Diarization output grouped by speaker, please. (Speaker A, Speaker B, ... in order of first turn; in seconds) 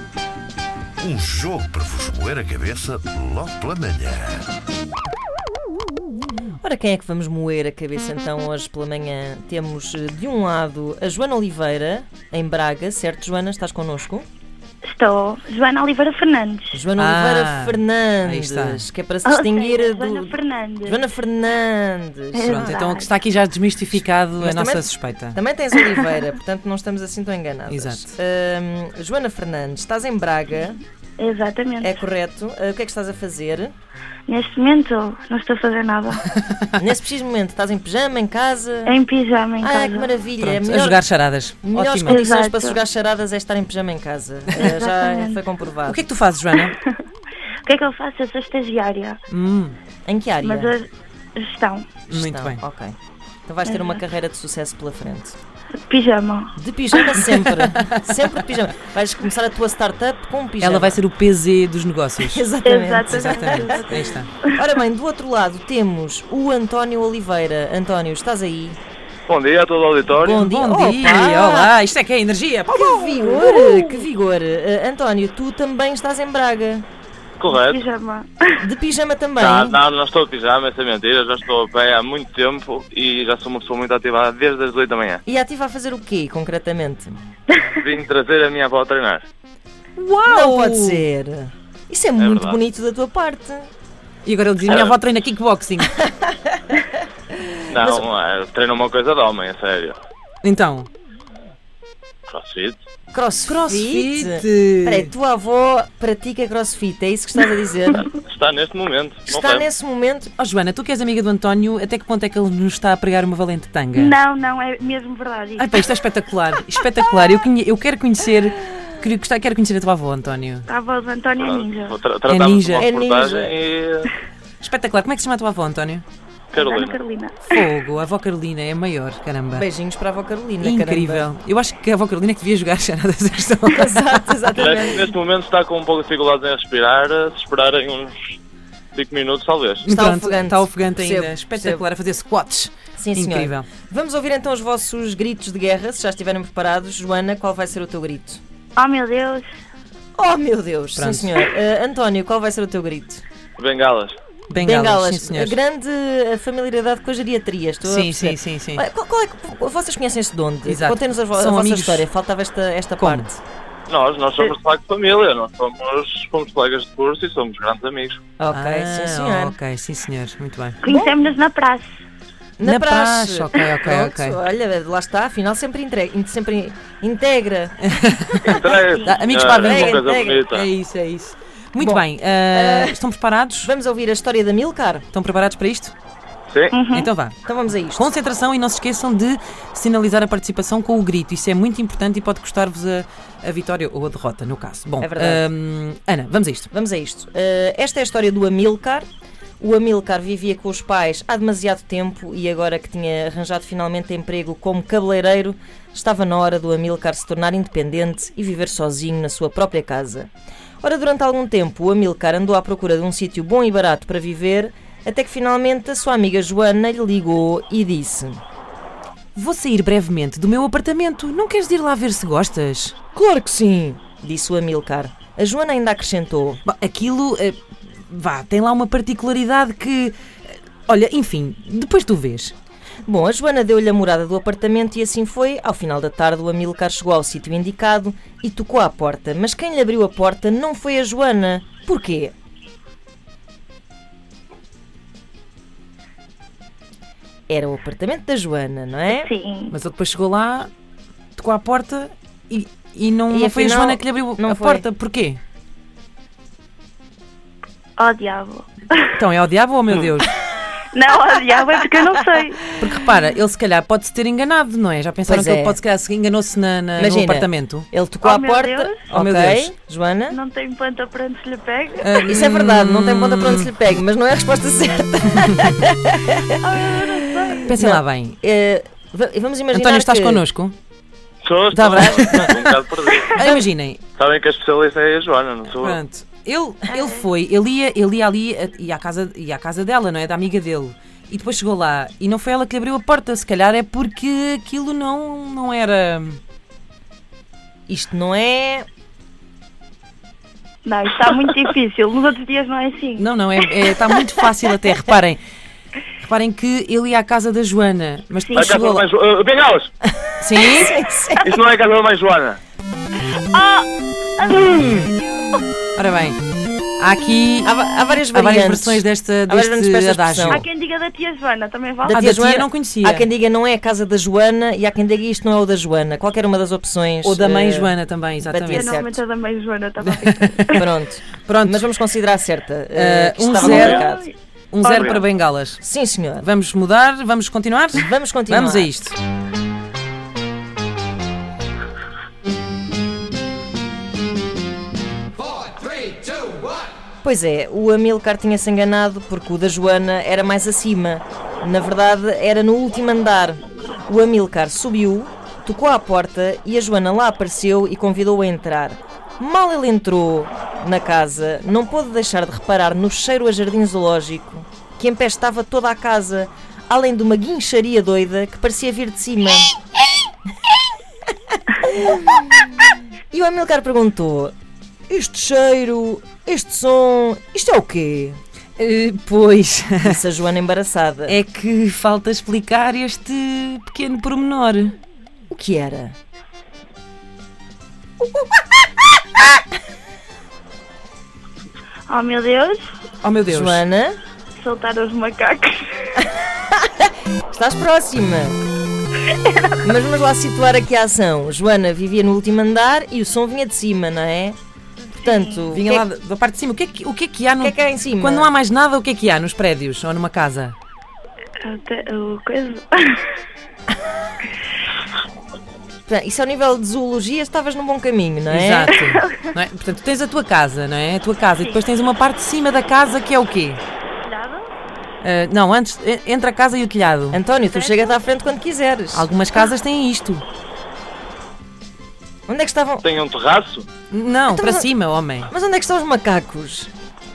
Speaker A: 1.0-4.5
Speaker B: 6.6-14.2, 16.7-22.8, 23.9-30.8, 31.8-33.7, 36.8-39.0, 39.6-41.0, 41.6-46.0, 50.0-50.7, 52.1-52.9, 53.5-55.3, 56.5-61.0, 62.2-68.8, 70.2-71.7, 72.7-76.8, 78.6-79.8, 85.2-87.2, 90.2-93.7, 95.8-96.8, 97.7-98.0, 103.1-108.0, 109.3-110.3, 122.8-123.6, 129.5-131.3, 133.7-135.1, 139.9-141.8, 142.9-148.4, 150.2-153.2, 154.6-163.4, 168.4-169.6, 170.9-171.1, 172.6-177.9, 179.5-180.4, 181.8-183.0, 183.6-185.0, 187.4-188.1, 195.0-195.5, 196.7-199.1, 199.6-210.3, 210.8-218.4, 223.1-226.6, 233.1-242.3, 247.5-249.3, 253.3-254.8, 265.2-265.8, 267.0-270.4, 272.2-280.4, 281.8-282.6, 283.3-283.6, 297.9-298.9, 310.0-311.5, 314.5-315.0, 317.6-320.6, 322.0-329.2, 330.7-334.2, 335.8-336.5, 337.9-338.9, 347.2-369.7, 371.8-374.5, 375.1-378.4, 380.0-381.4, 385.5-386.1, 393.4-394.2, 397.5-398.6, 399.8-404.6, 405.2-406.1, 407.6-408.5, 416.1-418.9, 427.3-429.3, 432.5-433.0, 434.5-434.9, 435.4-436.9
Speaker C: 14.8-16.8, 19.2-21.0, 22.3-23.1, 31.2-32.0, 34.3-36.2, 38.9-40.1, 42.0-42.8, 44.6-45.4, 46.6-47.0, 47.6-49.2, 50.4-51.9, 53.6-54.0, 55.9-56.5, 62.6-64.5, 77.5-78.6, 113.9-115.8, 120.7-122.0, 126.5-127.6, 148.8-149.5, 170.8-171.8, 186.7-187.1, 249.1-249.7, 258.0-259.1, 260.9-262.6, 268.2-269.0, 270.3-272.2, 276.6-277.7, 286.9-287.2, 300.8-303.3, 308.5-308.8, 313.5-313.9, 314.4-315.6, 320.4-322.2, 328.7-330.8, 333.5-335.2, 392.1-392.8, 394.6-396.2, 399.2-399.9, 405.2-405.7, 411.6-413.2, 418.9-419.3, 421.5-421.9, 424.2-424.7, 427.6-428.2
Speaker D: 17.0-18.8, 22.4-25.4, 27.7-28.1, 36.4-36.6, 40.4-42.2, 45.9-46.7, 49.3-49.8, 52.1-52.6, 57.3-58.4, 60.6-62.5, 63.1-64.3, 70.2-73.8, 90.0-91.1, 94.2-96.0, 100.4-100.9, 103.5-105.1, 110.4-114.1, 115.6-120.7, 122.3-122.9, 124.6-126.0, 127.5-129.6, 130.6-134.6, 139.8-143.7, 150.9-151.3, 154.5-155.6, 157.8-158.8, 160.7-162.1, 163.0-163.3, 168.5-170.8, 172.6-174.4, 177.8-183.7, 185.1-185.9, 186.9-187.4, 187.9-196.7, 219.3-222.9, 226.6-232.5, 249.7-250.7, 251.4-255.4, 259.1-260.3, 262.8-267.9, 269.1-269.7, 272.0-273.7, 277.6-278.4, 279.7-280.7, 281.7-284.0, 285.8-296.4, 303.2-305.4, 306.2-309.1, 310.4-310.9, 315.9-316.4, 317.0-317.7, 318.3-320.6, 322.1-323.3, 327.2-328.9, 331.4-331.8, 332.9-334.1, 334.7-335.8, 336.4-339.2, 378.8-380.2, 381.3-384.9, 393.2-393.8, 405.7-410.8, 418.5-423.8, 425.2-427.4, 429.1-430.4, 434.1-435.5
Speaker E: 69.3-70.4, 77.4-77.8, 79.4-85.2, 87.8-89.2, 92.2-92.6, 94.6-94.9, 97.7-100.0, 102.3-102.8, 107.9-109.7, 121.4-124.1, 126.5-127.0, 134.6-138.2, 138.9-139.8, 153.6-154.1, 163.9-168.2, 178.4-180.7, 186.5-186.8, 281.4-283.4, 284.2-286.0, 308.5-309.9, 311.4-312.6, 433.0-433.9